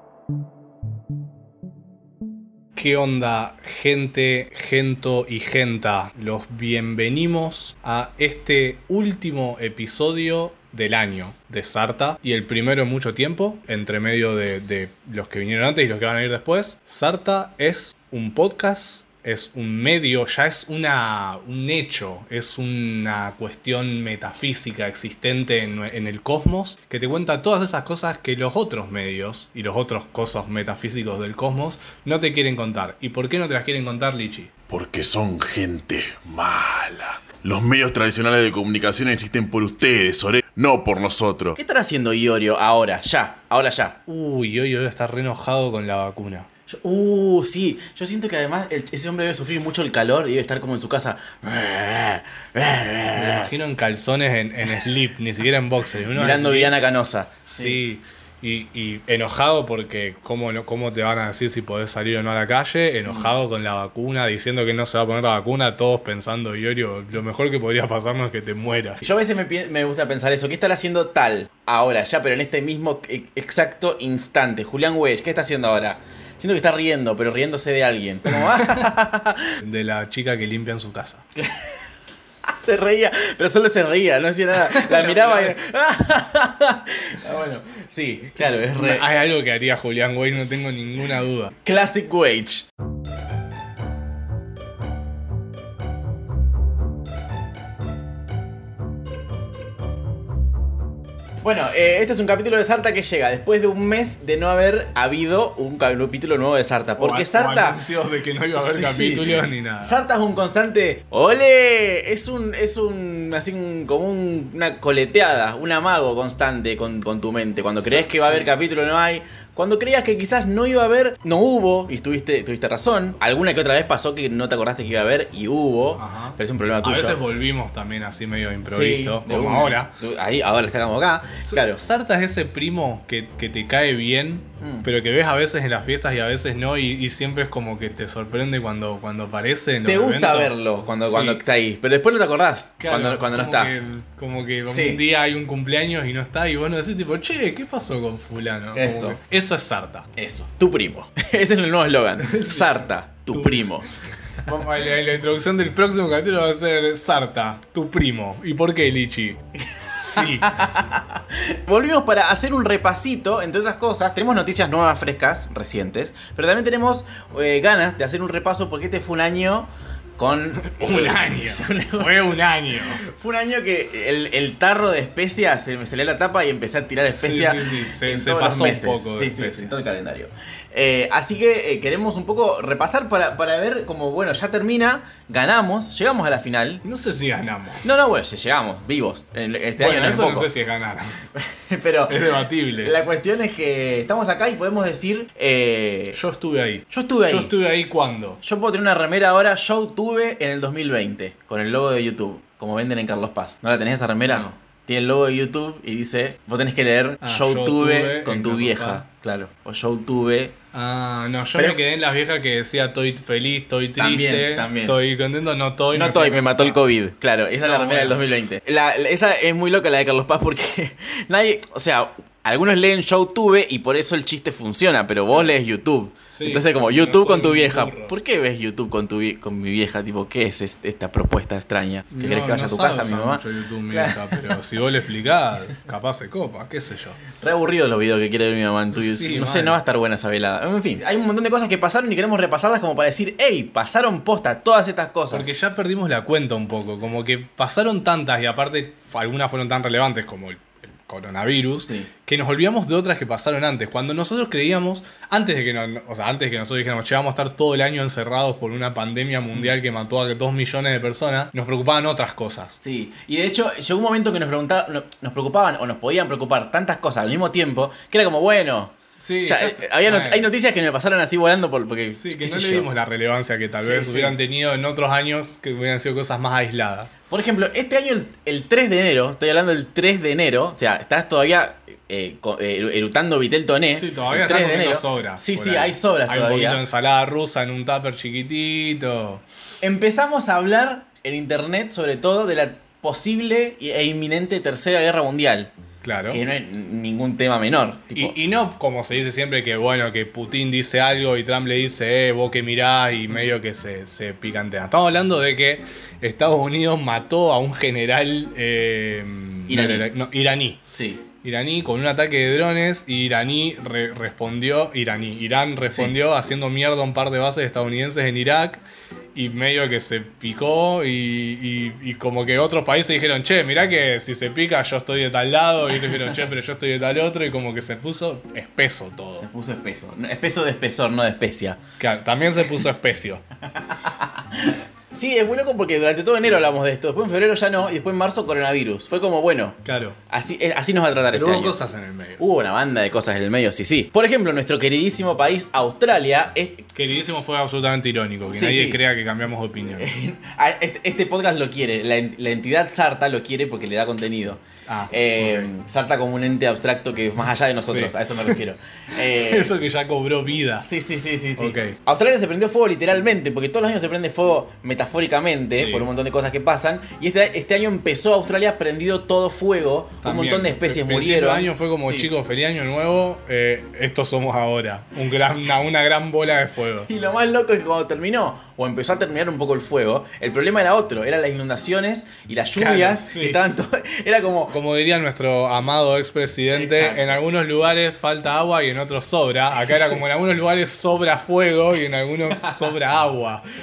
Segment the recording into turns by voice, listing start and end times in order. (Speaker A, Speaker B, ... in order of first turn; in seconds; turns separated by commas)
Speaker A: 2.8-34.5, Speaker B: 34.7-41.6, Speaker C: 41.5-44.0, Speaker A: 44.0-46.5, Speaker C: 46.7-53.5, Speaker A: 53.1-56.8, Speaker C: 56.1-57.8, Speaker A: 57.5-69.0, Speaker C: 69.0-79.5, Speaker A: 78.3-78.9, Speaker A: 79.6-81.2, Speaker C: 81.3-81.8, Speaker C: 82.5-89.1, Speaker A: 84.6-85.5, Speaker A: 88.7-91.5, Speaker C: 91.6-92.7, Speaker C: 101.4-107.8, Speaker A: 107.0-110.0, Speaker C: 108.5-127.2, Speaker A: 117.8-118.5, Speaker A: 126.0-129.9, Speaker C: 128.7-131.8, Speaker A: 131.5-140.5, Speaker C: 134.6-134.8, Speaker C: 139.8-143.7, Speaker A: 141.1-141.4, Speaker A: 142.8-150.1, Speaker C: 144.7-145.0, Speaker C: 148.7-149.2, Speaker C: 150.2-153.9, Speaker A: 152.2-153.8, Speaker A: 154.4-159.4, Speaker A: 160.0-160.6, Speaker C: 160.1-172.2, Speaker A: 170.6-173.0, Speaker C: 172.9-186.8, Speaker A: 177.1-179.8, Speaker A: 186.8-187.9, Speaker C: 187.8-190.5, Speaker A: 189.8-191.2, Speaker C: 191.3-196.2, Speaker A: 192.1-193.0, Speaker A: 196.1-198.4, Speaker C: 196.9-197.5, Speaker C: 198.4-210.5, Speaker A: 204.2-204.6, Speaker A: 207.2-209.0, Speaker A: 210.7-216.8, Speaker C: 214.0-215.0, Speaker C: 215.9-234.6, Speaker A: 217.6-218.3, Speaker A: 226.3-228.2, Speaker A: 232.1-237.2, Speaker C: 237.3-245.5, Speaker A: 238.9-239.8, Speaker A: 245.3-262.8, Speaker C: 251.8-252.1, Speaker C: 262.8-268.9, Speaker A: 269.2-270.5, Speaker C: 269.4-272.9, Speaker A: 272.2-277.1, Speaker C: 273.7-274.3, Speaker C: 277.3-286.8, Speaker A: 283.9-289.4, Speaker C: 289.8-295.7, Speaker A: 296.0-296.4, Speaker C: 296.3-298.3, Speaker A: 298.1-310.8, Speaker C: 309.7-310.1, Speaker C: 310.9-311.2, Speaker A: 311.4-318.8, Speaker A: 319.3-329.5, Speaker C: 329.4-331.8, Speaker A: 332.0-333.4, Speaker C: 333.9-341.8, Speaker A: 339.8-340.2, Speaker A: 341.3-342.4, Speaker C: 342.4-347.0, Speaker A: 346.9-350.1, Speaker C: 348.5-349.0, Speaker C: 350.0-359.7, Speaker A: 354.9-355.7, Speaker A: 357.5-358.6, Speaker A: 359.2-360.9, Speaker C: 360.8-372.3, Speaker A: 361.6-361.9, Speaker A: 365.7-366.1, Speaker A: 370.2-377.1, Speaker C: 377.1-384.8, Speaker A: 382.8-383.6, Speaker A: 384.7-393.6, Speaker C: 386.7-387.4, Speaker C: 392.6-392.9